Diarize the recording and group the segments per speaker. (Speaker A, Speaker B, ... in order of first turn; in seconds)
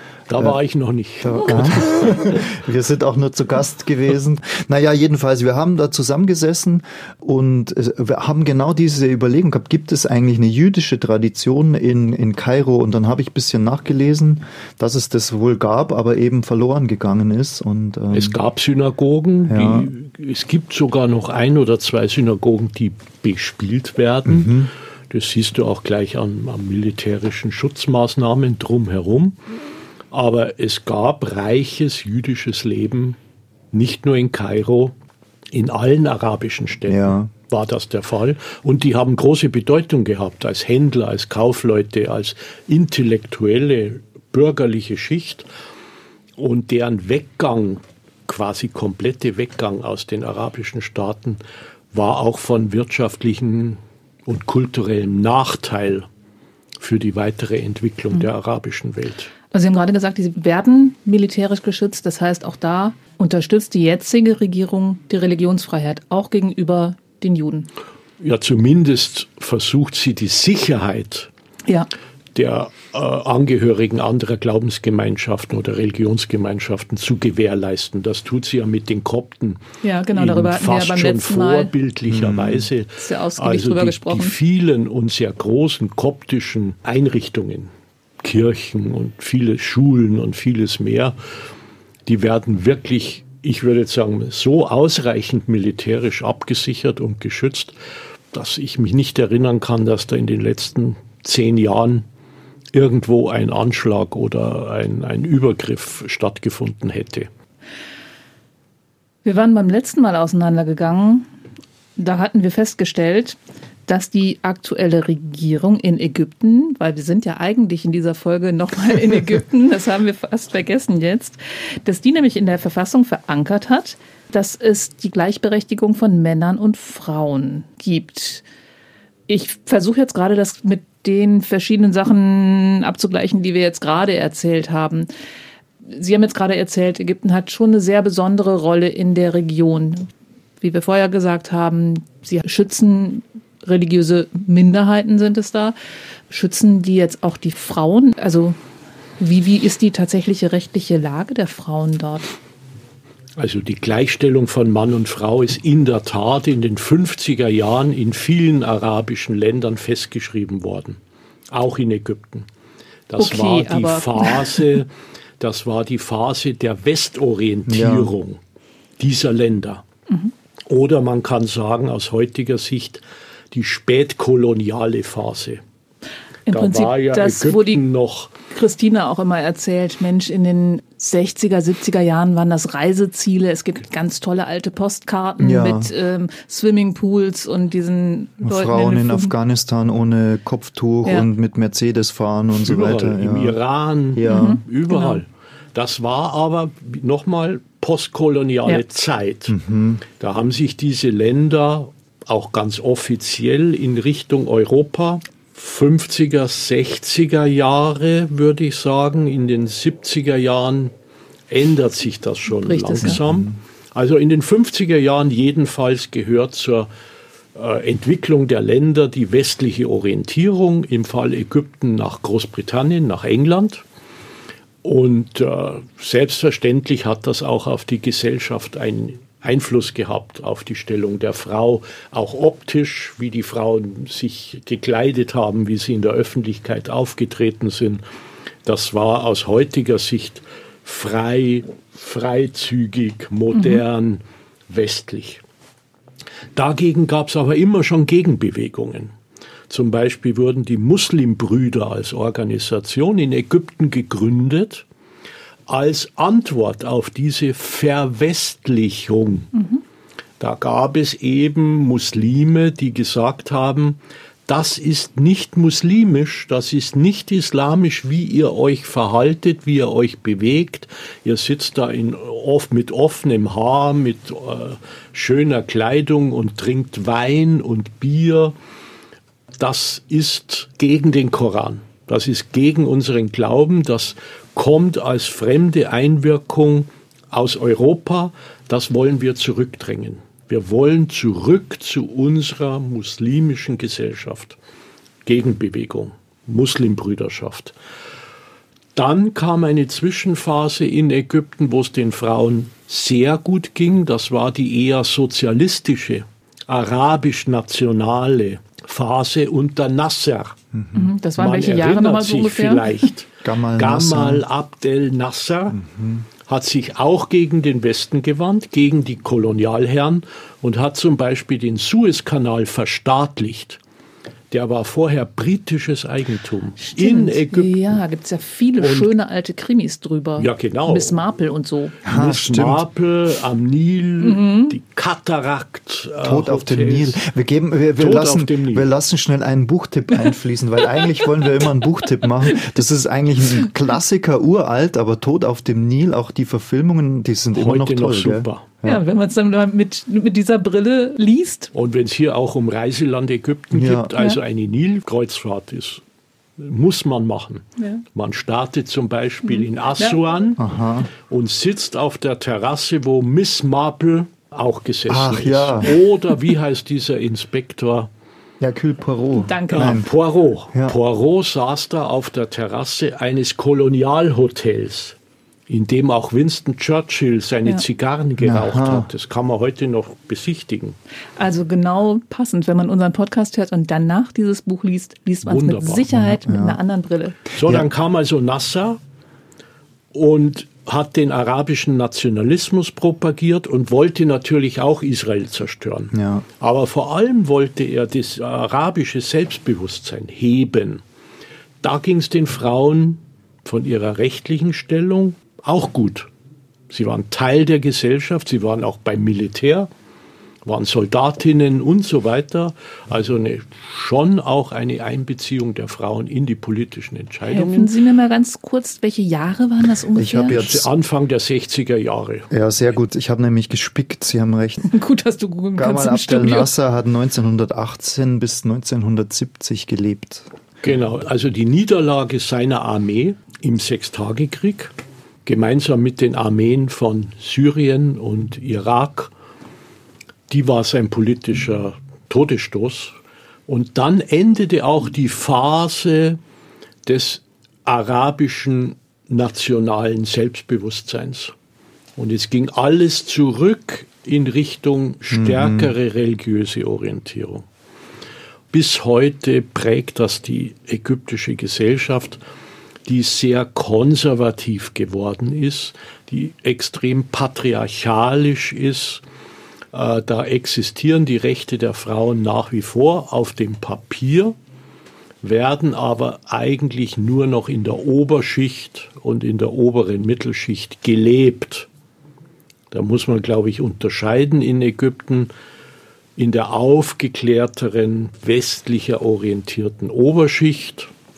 Speaker A: 0.3-2.5, 18.1-29.4, 30.1-33.2, 33.7-34.9, 35.5-45.5, 46.4-51.4, 51.9-56.1, 56.8-59.3, 68.2-71.3, 72.3-79.6, 80.1-87.7, 88.2-91.2, 92.0-97.7, 98.3-102.0, 102.7-107.3, 153.4-161.0, 161.5-162.5, 163.1-168.4, 169.0-169.8, 170.7-175.6, 176.5-178.3, 192.6-199.6, 200.1-210.9, 211.5-216.9, 217.5-223.8, 224.8-238.0, 238.6-245.4, 246.5-249.1, 249.7-254.8, 255.7-259.5, 260.4-278.5, 279.6-294.6, 295.2-297.7, 298.9-310.6, 311.4-315.8, 316.4-323.8, 324.5-328.0, 328.8-329.1, 330.4-331.2, 332.0-337.2, 338.0-338.9, 347.5-348.7, 351.7-356.0, 356.6-360.6, 361.2-368.1, 369.7-375.1, 375.7-381.0, 385.4-386.1, 387.5-389.0, 390.1-401.0, 401.8-406.3, 406.9-409.9, 410.6-417.9, 420.4-422.5, 430.8-434.9, 435.4-439.3, 440.5-443.1, 443.7-446.4, 447.1-451.5, 452.2-457.6, 458.7-462.4, 463.1-469.2, 469.9-474.6, 475.4-481.9, 482.9-485.5, 486.4-491.1
Speaker B: 1.2-18.4, 19.5-19.9, 24.2-24.7, 36.9-37.3, 82.1-82.7, 167.7-168.1, 185.4-185.9, 188.4-193.6, 194.1-194.6, 199.5-200.0, 213.0-213.6, 310.7-311.1, 313.4-314.4, 315.7-316.2, 332.0-332.8, 336.2-349.0, 353.7-354.1, 360.6-361.1, 365.1-365.9, 368.6-370.1, 378.4-379.1, 386.1-386.8, 387.6-387.9, 396.1-396.4, 420.1-420.9, 422.5-424.8, 425.8-430.5, 455.3-455.9
Speaker C: 59.5-67.7, 79.8-81.7, 83.0-84.3, 109.2-111.3, 112.0-128.4, 129.3-135.1, 135.8-140.1, 140.6-145.8, 146.3-148.6, 149.2-152.3, 163.2-164.8, 176.5-177.8, 178.5-189.3, 194.3-195.2, 212.6-213.2, 243.5-243.8, 310.9-313.1, 326.8-332.0, 334.2-334.8, 348.8-351.7, 359.4-360.2, 369.4-370.0, 381.4-387.4, 417.5-420.6, 424.8-426.7